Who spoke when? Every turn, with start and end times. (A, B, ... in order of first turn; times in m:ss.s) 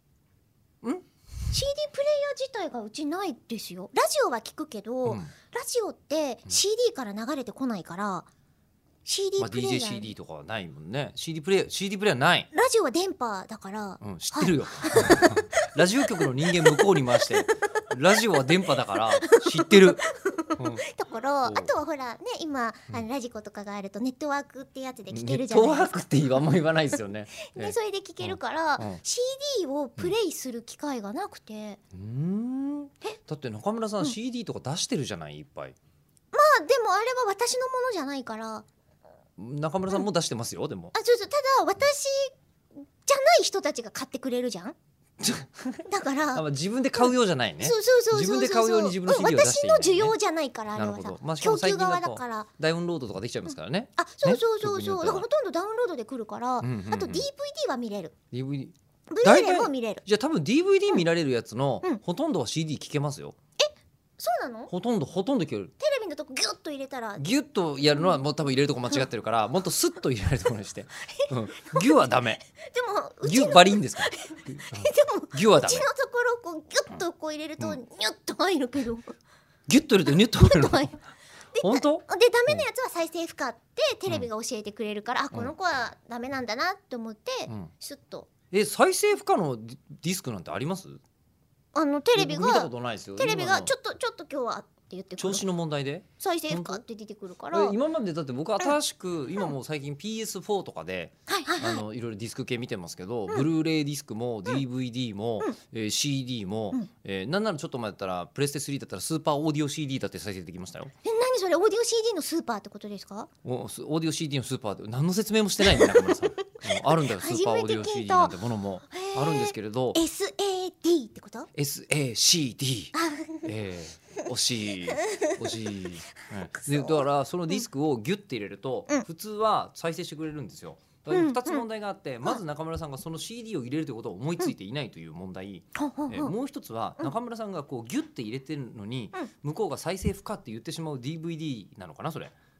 0:01.5-0:08.3 A
0:05.0-0:05.3 B
0:09.0-0:10.1 A
0:09.4-0:12.5 B
0:12.5-0:15.7 A
0:14.0-0:20.0 B
0:19.2-0:26.4 A
0:20.6-0:20.8 B
0:21.4-0:21.7 B
0:25.1-0:29.0 B
0:27.4-0:31.8 A
0:31.9-0:35.8 B
0:36.3-0:38.6 A
0:39.4-0:40.9 B
0:40.9-0:42.3 A
0:43.0-0:44.8 A
0:45.2-0:50.2 B
0:45.9-0:46.4 A
0:47.0-0:52.5 A
0:50.8-0:55.3 B
0:54.0-0:58.1 A
0:56.6-0:57.3 B
0:58.3-1:03.4 B
0:59.1-1:00.0 A
1:03.6-1:04.7 A
1:04.7-1:05.7 B
1:05.8-1:07.2 A
1:07.2-1:12.4 B
1:11.7-1:12.0 A
1:12.6-1:19.2 A
1:13.2-1:15.8 B
1:19.7-1:20.9 B
1:20.1-1:21.0 A
1:21.5-1:28.3 A
1:21.6-1:22.6 B
1:28.5-1:31.0 B
1:31.7-1:35.4 A
1:32.1-1:33.7 B
1:35.2-1:36.8 B
1:36.2-1:37.8 A
1:37.5-1:50.9 B
1:41.3-1:41.8 A
1:51.0-1:53.3 A
1:53.4-2:00.0 B
1:55.6-1:58.4 A
1:58.9-2:01.5 A
2:01.5-2:22.3 B
2:02.9-2:03.5 A
2:04.9-2:05.6 A
2:06.6-2:07.0 A
2:11.1-2:11.6 A
2:15.7-2:16.3 A